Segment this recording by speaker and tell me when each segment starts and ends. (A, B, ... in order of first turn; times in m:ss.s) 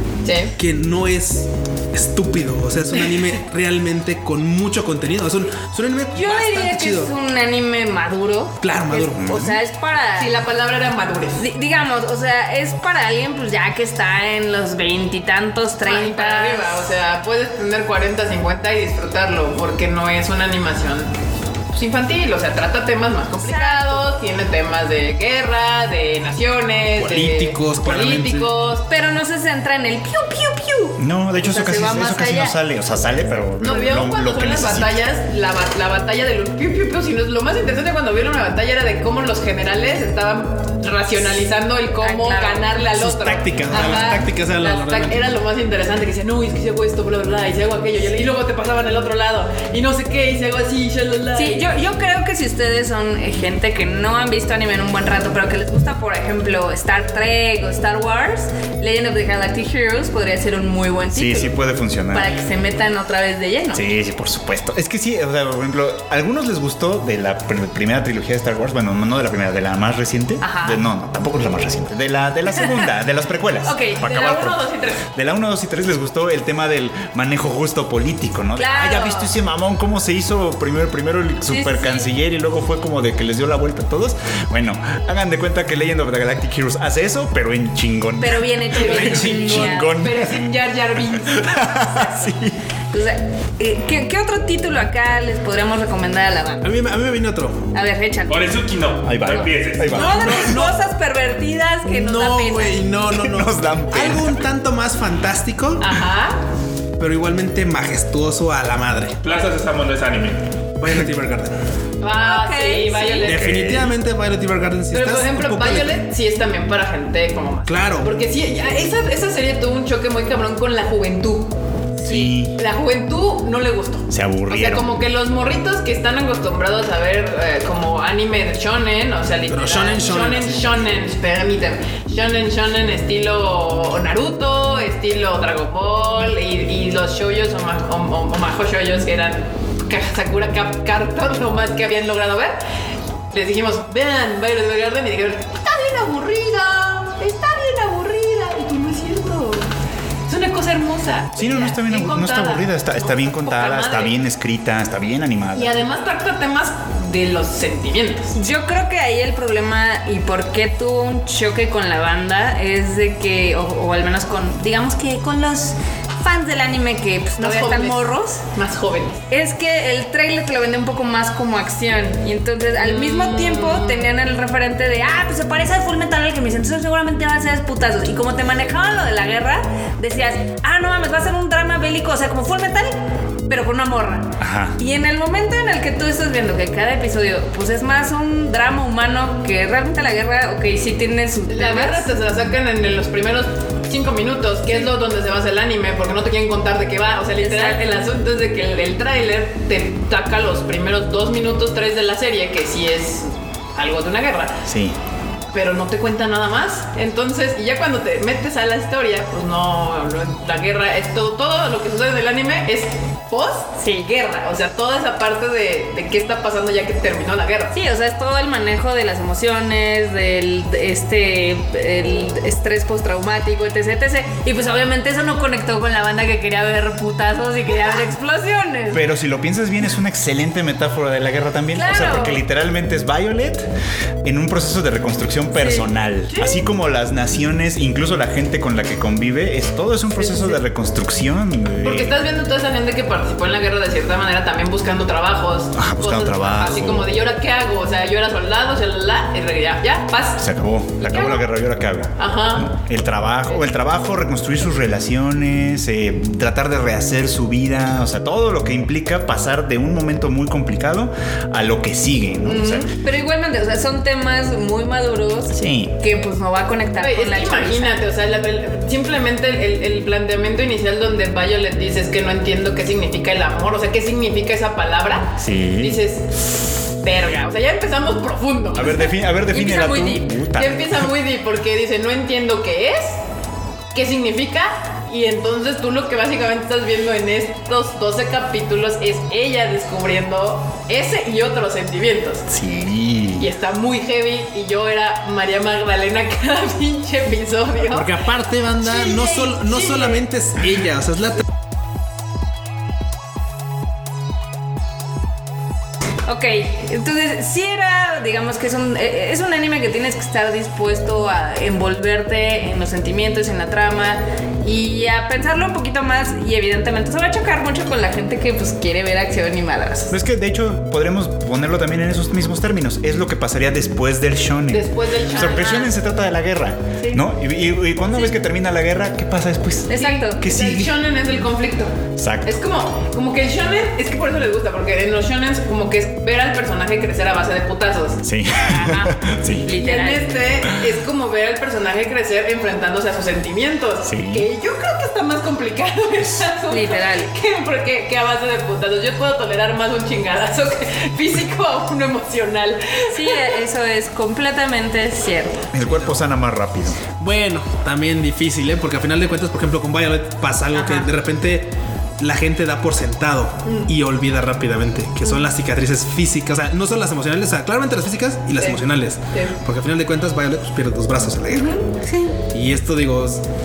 0:00.2-0:00.6 A
0:00.6-0:07.1 B
0:06.1-0:10.3 C
0:08.6-0:09.2 B
0:09.0-0:09.6 D
0:10.2-0:11.4 A
0:11.4-0:16.8 C
0:15.8-0:21.1 A
0:21.7-0:28.9 A
0:23.4-0:24.1 C
0:27.0-0:28.5 B
0:28.9-0:32.6 C
0:31.0-0:35.0 D
0:33.6-0:51.7 A
0:42.0-0:42.7 C
0:42.8-0:45.4 B
0:43.7-0:44.2 C
0:51.4-1:01.6 C
1:01.1-1:02.3 D
1:02.1-1:03.8 C
1:03.7-1:30.5 D
1:10.4-1:10.8 C
1:13.6-1:15.0 A
1:18.6-1:19.3 C
1:21.5-1:22.1 C
1:28.2-1:29.9 C
1:28.8-1:32.3 A
1:28.9-1:29.7 B
1:31.1-1:32.6 D
1:32.9-1:36.7 C
1:36.6-1:37.6 B
1:37.7-1:38.5 C
1:38.3-1:40.0 E
1:39.0-1:40.6 D
1:39.2-1:42.8 C
1:39.9-1:40.8 B
1:41.8-1:45.9 B
1:43.1-1:44.5 D
1:45.8-1:46.4 A
1:47.0-1:49.2 B
1:49.2-1:50.4 E
1:50.8-1:51.6 B
1:52.0-1:53.5 A
1:52.1-1:53.3 C
1:53.2-1:56.0 B
1:53.3-1:54.0 D
1:54.9-2:01.5 A
1:57.7-1:58.1 B
2:02.0-2:02.6 D
2:02.0-2:02.3 C
2:02.2-2:22.6 A
2:04.1-2:04.9 D
2:09.5-2:10.8 B
2:23.3-2:29.7 A
2:30.3-2:34.2 A
2:31.4-2:35.8 D
2:35.6-2:38.4 A
2:38.4-2:48.4 C
2:47.4-2:48.0 A
2:48.5-2:49.2 A
2:49.3-3:03.0 C
2:52.8-2:54.1 A
3:03.5-3:12.1 C
3:04.4-3:04.8 D
3:11.5-3:24.6 A
3:17.4-3:17.9 C
3:24.7-3:25.0 D
3:25.5-3:37.7 A
3:37.7-3:49.0 C
3:48.9-3:53.7 D
3:51.7-3:52.4 C
3:54.2-4:02.1 D
3:55.6-3:55.9 C
3:56.3-3:56.6 A
4:00.2-4:00.6 C
4:01.8-4:10.4 A
4:05.7-4:07.1 D
4:10.4-4:22.9 D
4:11.1-4:11.3 A
4:12.2-4:12.7 A
4:22.5-4:22.9 A
4:22.9-4:28.0 C
4:25.5-4:25.9 D
4:27.0-4:36.5 A
4:35.4-4:36.0 D
4:37.0-4:39.0 A
4:38.8-4:41.0 D
4:39.5-4:40.4 C
4:40.6-4:43.2 A
4:43.9-4:52.5 A
4:52.5-4:53.5 D
4:53.4-4:58.2 A
4:57.8-5:01.4 B
4:58.8-5:00.2 A
5:06.3-5:20.1 C
5:20.1-5:30.9 D
5:24.7-5:25.9 A
5:25.4-5:25.9 C
5:29.9-5:30.4 C
5:29.9-5:31.9 A
5:32.2-5:32.6 D
5:32.5-5:39.2 A
5:38.2-5:39.7 D
5:39.6-5:40.3 C
5:39.7-5:53.6 A
5:44.1-5:44.5 D
5:46.7-5:47.3 C
5:53.1-5:55.6 C
5:55.7-5:57.0 D
5:55.9-5:56.2 B
5:57.2-6:11.8 B
6:00.8-6:01.1 C
6:03.7-6:03.9 A
6:08.6-6:09.6 A
6:11.5-6:11.8 A
6:12.0-6:12.4 C
6:12.5-6:13.4 B